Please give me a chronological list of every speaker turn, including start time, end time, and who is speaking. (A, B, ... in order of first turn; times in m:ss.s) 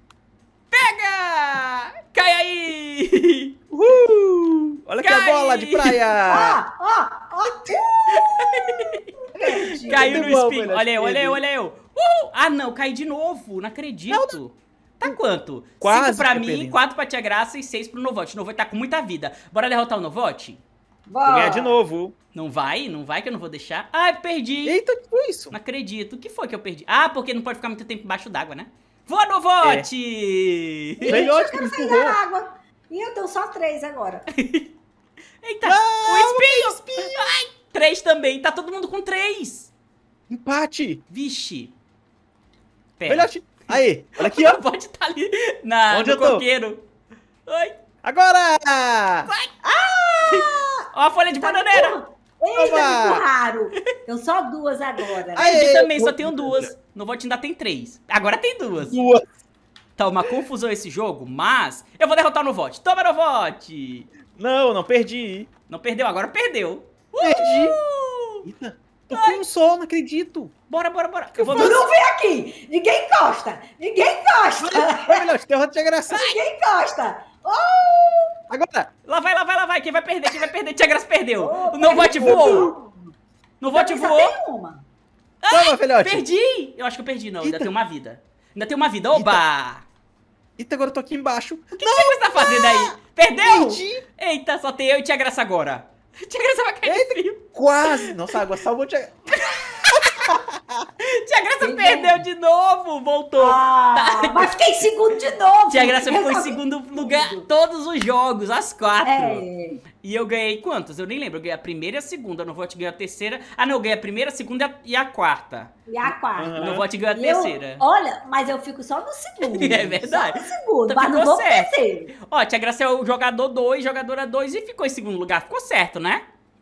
0:00.7-0:03.5 A
0:03.7-0:06.6 B
0:05.0-0:06.1 A
0:06.2-0:07.9 C
0:07.4-0:07.8 B
0:08.1-0:20.6 A
0:09.3-0:10.2 C
0:09.9-0:11.4 B
0:14.1-0:14.4 B
0:15.8-0:16.8 B
0:21.1-0:21.8 C
0:21.2-0:22.1 B
0:22.3-0:24.8 A
0:24.6-0:25.6 B
0:25.5-0:31.3 A
0:29.6-0:29.9 B
0:31.0-0:34.3 C
0:31.1-0:32.2 B
0:34.4-0:34.7 A
0:35.4-0:39.7 A
0:35.6-0:37.2 B
0:40.3-0:41.0 B
0:41.1-0:41.7 A
0:43.0-0:46.8 A
0:43.1-0:44.6 B
0:45.9-0:46.4 B
0:47.5-0:47.8 A
0:48.0-0:49.3 B
0:49.2-0:49.5 A
0:49.6-0:50.8 C
0:50.3-0:52.0 A
0:51.3-0:55.7 C
0:52.5-0:53.2 B
0:55.3-0:56.7 B
0:55.4-0:59.0 A
0:58.8-0:59.2 B
1:00.0-1:04.1 A
1:04.4-1:05.5 B
1:05.7-1:08.4 A
1:07.2-1:07.8 B
1:08.4-1:10.5 B
1:09.1-1:09.4 A
1:10.7-1:11.9 A
1:11.4-1:11.8 B
1:11.5-1:15.3 C
1:14.6-1:16.3 B
1:16.1-1:18.4 C
1:18.5-1:18.9 B
1:19.0-1:22.7 A
1:21.4-1:23.1 C
1:22.0-1:22.7 B
1:23.6-1:24.3 A
1:23.7-1:24.8 C
1:25.4-1:29.8 A
1:25.5-1:26.2 B
1:27.4-1:27.7 B
1:29.1-1:29.4 B
1:30.6-1:34.0 B
1:31.8-1:38.4 A
1:36.8-1:39.2 B
1:39.4-1:40.4 A
1:40.3-1:40.8 B
1:41.0-1:44.9 A
1:41.6-1:42.2 C
1:43.4-1:47.5 C
1:45.7-1:55.7 A
1:49.0-1:49.8 C
1:55.9-2:02.1 C
1:56.3-1:56.8 B
1:56.6-1:57.8 A
1:59.4-2:06.2 A